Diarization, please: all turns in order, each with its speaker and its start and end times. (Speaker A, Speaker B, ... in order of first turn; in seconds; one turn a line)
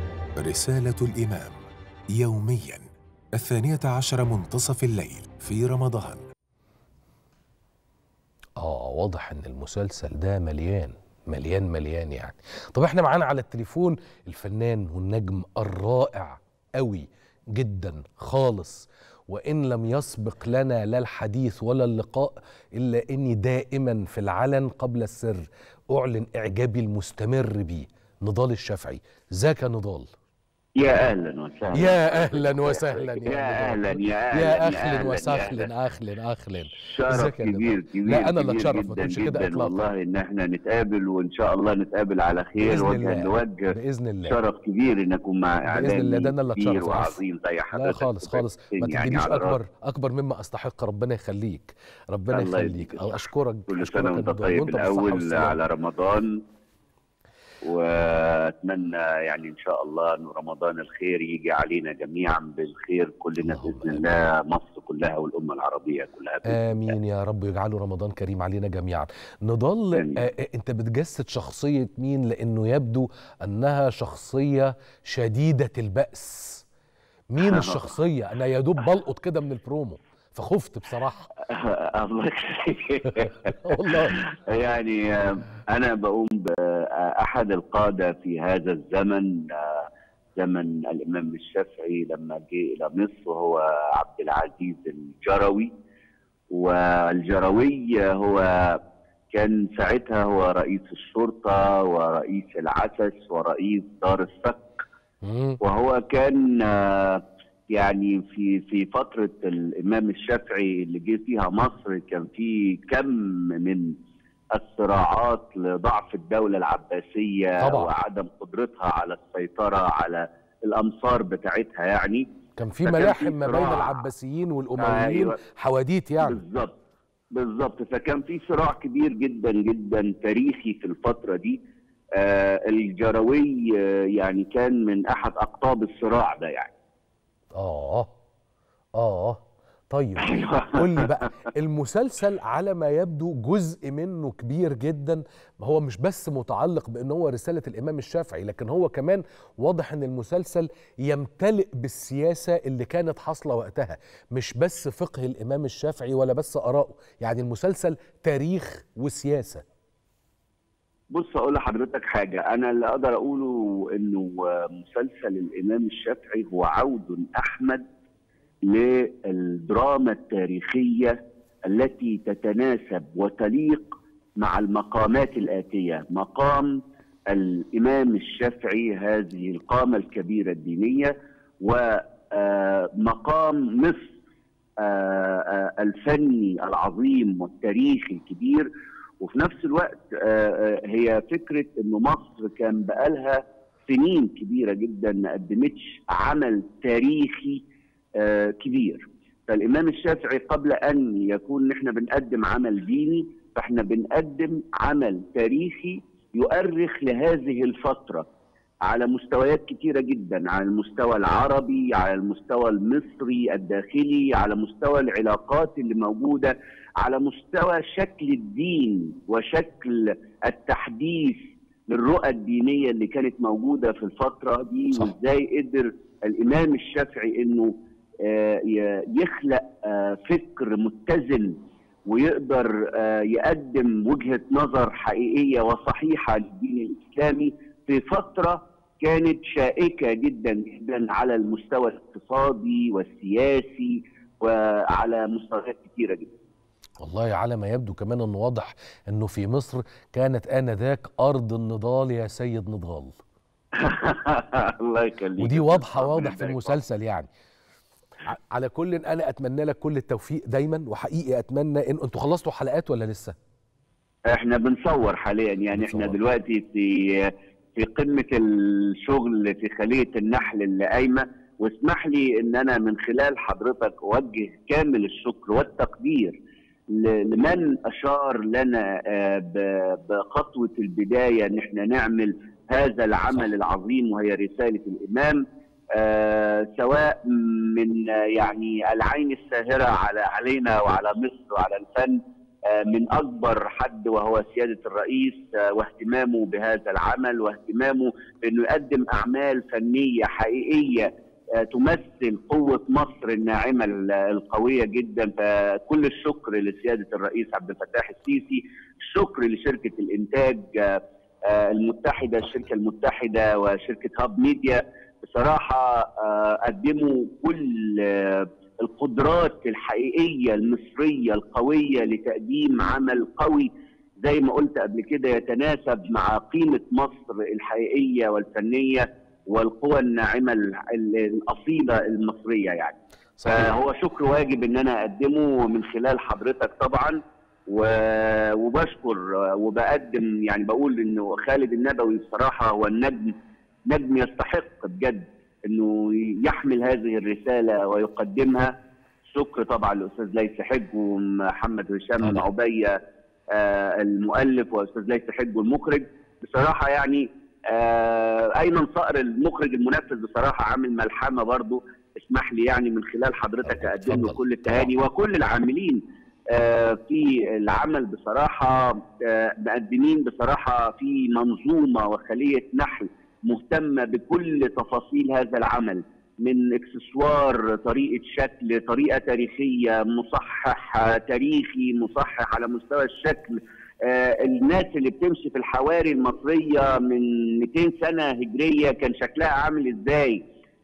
Speaker A: 0.3-1.6
Speaker A: 2.1-6.2
Speaker B: 8.6-30.1
Speaker C: 30.8-35.7
Speaker B: 31.7-39.9
Speaker C: 36.9-43.6
Speaker B: 42.6-44.4
Speaker C: 44.3-49.6
Speaker B: 45.7-47.2
Speaker B: 47.7-55.6
Speaker C: 52.3-56.2
Speaker C: 57.6-66.7
Speaker B: 63.4-64.1
Speaker B: 66.5-76.6
Speaker C: 69.9-70.2
Speaker B: 77.3-81.3
Speaker C: 77.4-77.9
Speaker C: 81.5-83.5
Speaker B: 83.1-84.2
Speaker C: 84.2-89.8
Speaker C: 90.4-95.7
Speaker C: 96.5-98.7
Speaker C: 99.3-104.7
Speaker B: 105.2-105.6
Speaker C: 105.6-107.2
Speaker C: 107.7-113.9
Speaker C: 114.6-122.2
Speaker B: 117.6-117.9
Speaker B: 122.6-126.4
Speaker C: 122.8-124.0
Speaker C: 124.8-125.3
Speaker C: 126.2-126.8
Speaker C: 127.3-131.6
Speaker C: 132.2-136.7
Speaker B: 137.6-138.1
Speaker B: 139.0-139.4
Speaker B: 139.9-159.6
Speaker C: 140.2-141.2
Speaker C: 161.1-167.8
Speaker C: 168.7-171.2
Speaker C: 171.7-176.8
Speaker C: 177.3-184.1
Speaker C: 184.8-188.7
Speaker C: 189.2-197.6
Speaker C: 198.2-208.2
Speaker C: 208.9-227.7
Speaker C: 228.2-231.5
Speaker C: 232.1-246.3
Speaker B: 247.0-253.2
Speaker C: 253.8-256.8
Speaker B: 255.4-257.3
Speaker B: 258.3-263.4
Speaker C: 264.3-276.4
Speaker B: 265.7-266.2
Speaker C: 276.9-285.4
Speaker C: 286.0-287.1
Speaker C: 287.7-292.2
Speaker C: 292.7-301.1
Speaker C: 301.6-323.7
Speaker C: 324.2-332.9
Speaker B: 333.4-333.8
Speaker C: 333.4-337.2
Speaker C: 337.7-343.3
Speaker C: 343.9-348.7
Speaker C: 349.3-352.9
Speaker B: 352.2-352.4
Speaker C: 353.6-366.0
Speaker B: 363.6-364.9
Speaker C: 366.5-390.4